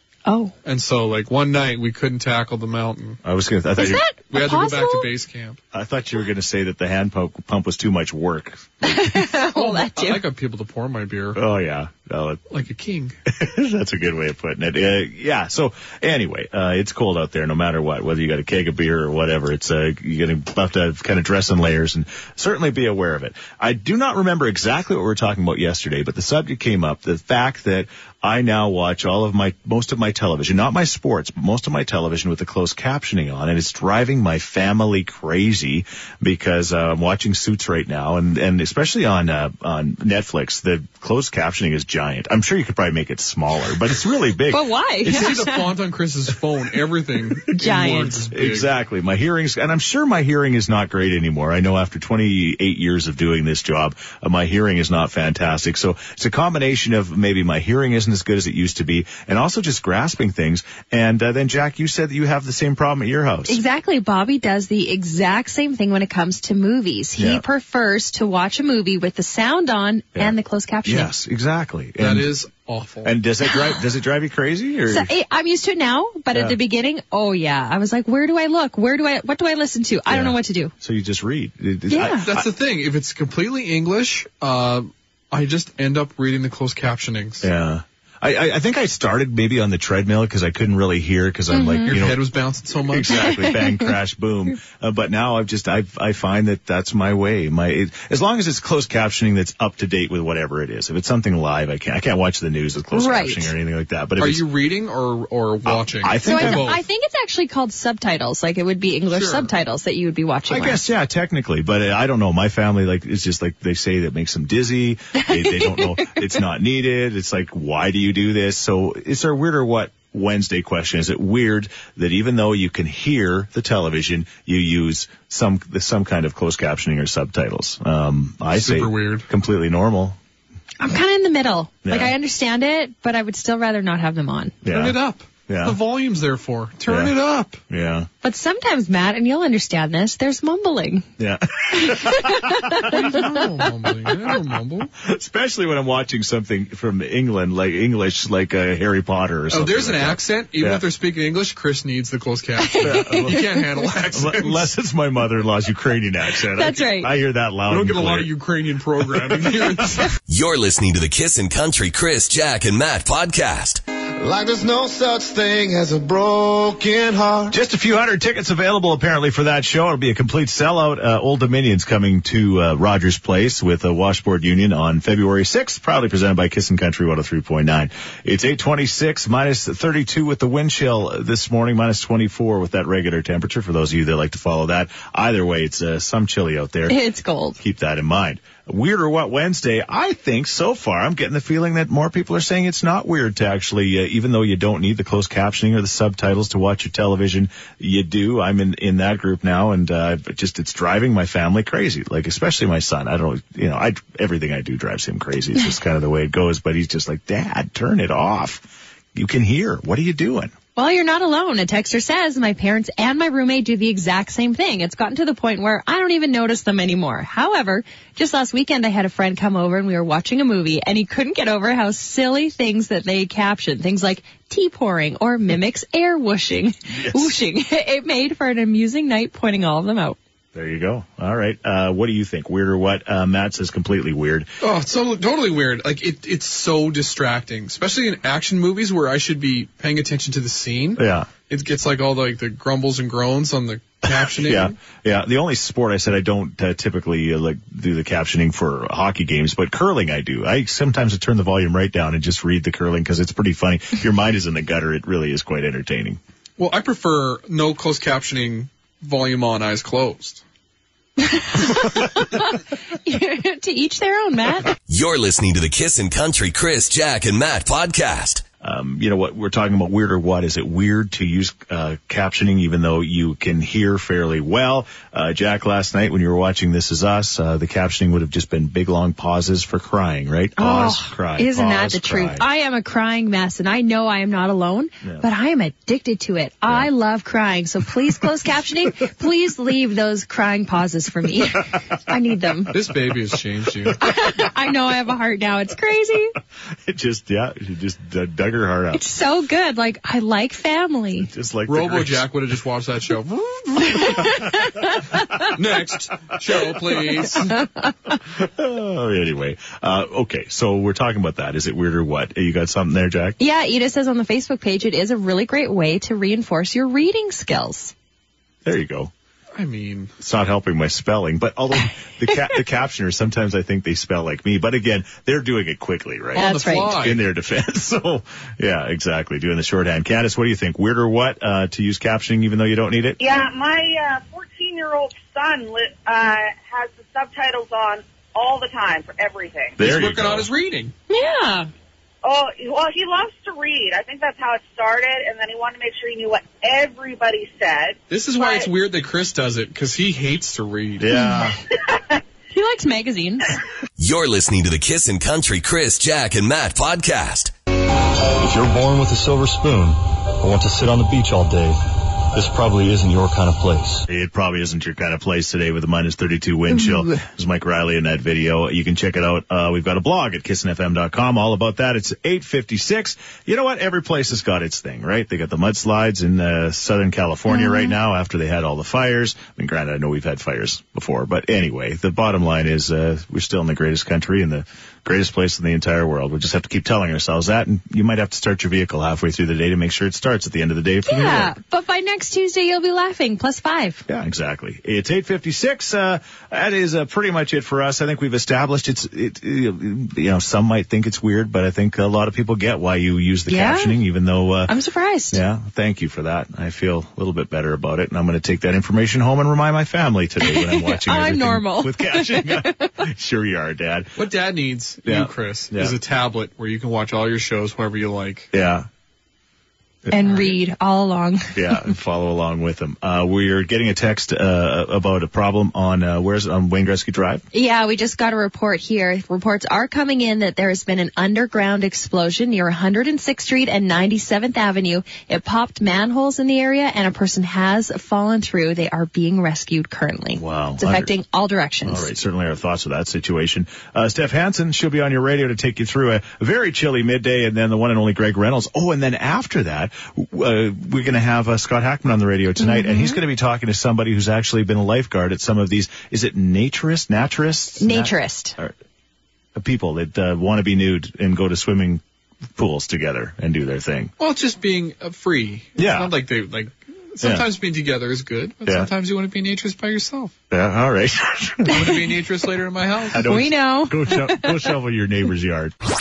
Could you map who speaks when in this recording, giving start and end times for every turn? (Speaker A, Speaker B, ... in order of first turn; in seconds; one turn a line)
Speaker A: 0.2-0.5
Speaker B: 0.6-3.2
Speaker C: 3.2-4.0
Speaker A: 3.8-5.1
Speaker B: 4.3-5.6
Speaker C: 5.7-9.1
Speaker A: 8.8-10.2
Speaker B: 9.5-11.4
Speaker C: 11.3-12.4
Speaker B: 12.5-13.2
Speaker C: 13.3-45.3
Speaker A: 44.5-45.6
Speaker B: 45.0-48.7
Speaker A: 47.5-48.2
Speaker C: 48.3-63.6
Speaker A: 63.5-71.1
Speaker C: 67.2-67.4
Speaker C: 70.8-72.3
Speaker B: 72.0-73.1
Speaker C: 73.0-75.1
Speaker A: 74.9-80.7
Speaker C: 76.3-76.6
Speaker C: 80.1-82.5
Speaker A: 81.9-82.2
Speaker B: 82.0-87.5
Speaker C: 87.4-92.3
Speaker A: 91.5-91.9
Speaker B: 91.8-93.2
Speaker C: 92.9-104.5
Speaker A: 93.3-93.6
Speaker A: 102.9-103.5
Speaker B: 104.2-106.8
Speaker C: 105.6-106.8
Speaker A: 106.2-110.8
Speaker B: 109.1-109.5
Speaker C: 110.5-130.2
Speaker A: 115.2-116.2
Speaker B: 128.5-129.3
Speaker A: 130.8-134.6
Speaker C: 131.8-132.2
Speaker C: 134.6-134.9
Speaker B: 134.7-137.6
Speaker C: 135.5-135.8
Speaker C: 136.9-137.1
Speaker C: 137.7-138.1
Speaker A: 138.2-141.1
Speaker C: 141.2-142.8
Speaker A: 141.7-142.9
Speaker B: 142.9-144.9
Speaker C: 145.0-150.8
Speaker B: 149.5-154.7
Speaker A: 152.6-153.5
Speaker C: 152.8-153.5
Speaker C: 154.1-158.3
Speaker A: 156.6-157.1
Speaker B: 157.7-160.1
Speaker D: 160.3-163.8
Speaker E: 164.2-167.6
Speaker C: 167.5-187.0
Speaker A: 186.9-187.6
Speaker C: 187.6-210.5
Speaker A: 210.7-230.2
Speaker C: 226.9-227.3
Speaker C: 230.5-234.5
Speaker B: 234.6-244.8
Speaker C: 241.0-241.3
Speaker C: 244.1-256.2
Speaker B: 256.6-260.4
Speaker A: 261.2-264.7
Speaker D: 264.9-268.4
Speaker C: 268.6-282.4
Speaker A: 280.6-292.7
Speaker B: 292.7-294.0
Speaker A: 294.0-296.3
Speaker C: 296.8-299.0
Speaker A: 298.9-301.3
Speaker C: 301.2-302.2
Speaker B: 301.7-304.4
Speaker A: 303.9-305.3
Speaker B: 305.4-307.5
Speaker C: 308.3-313.4
Speaker A: 313.4-317.9
Speaker C: 318.6-319.1
Speaker B: 319.5-320.1
Speaker C: 320.2-333.2
Speaker B: 326.3-327.2
Speaker A: 326.4-326.9
Speaker F: 333.2-339.8
Speaker C: 339.8-340.5
Speaker B: 339.8-340.9
Speaker A: 341.1-341.7
Speaker F: 342.2-348.7
Speaker B: 348.1-351.1
Speaker C: 351.0-351.6
Speaker A: 351.1-351.5
Speaker A: 352.5-353.6
Speaker D: 354.0-357.5
Speaker G: 358.4-361.8
Speaker G: 362.3-364.1
Speaker C: 364.1-391.5
Speaker A: 366.8-367.2
Speaker A: 377.5-377.9
Speaker A: 391.1-394.0
Speaker C: 394.1-404.7
Speaker A: 403.5-404.0
Speaker A: 404.7-405.4
Speaker C: 405.3-414.1
Speaker A: 410.4-412.9
Speaker B: 414.2-418.5
Speaker C: 415.0-415.9
Speaker C: 418.5-418.9
Speaker A: 420.1-421.9
Speaker C: 421.5-427.4
Speaker A: 427.5-442.1
Speaker C: 440.4-441.1
Speaker C: 441.8-458.7
Speaker A: 452.6-453.2
Speaker A: 457.8-458.6
Speaker C: 459.5-462.0
Speaker C: 462.6-464.1
Speaker B: 464.2-470.3
Speaker C: 465.8-466.1
Speaker C: 467.2-467.5
Speaker C: 470.5-471.9
Speaker B: 471.6-473.2
Speaker C: 473.1-475.7
Speaker A: 473.2-474.6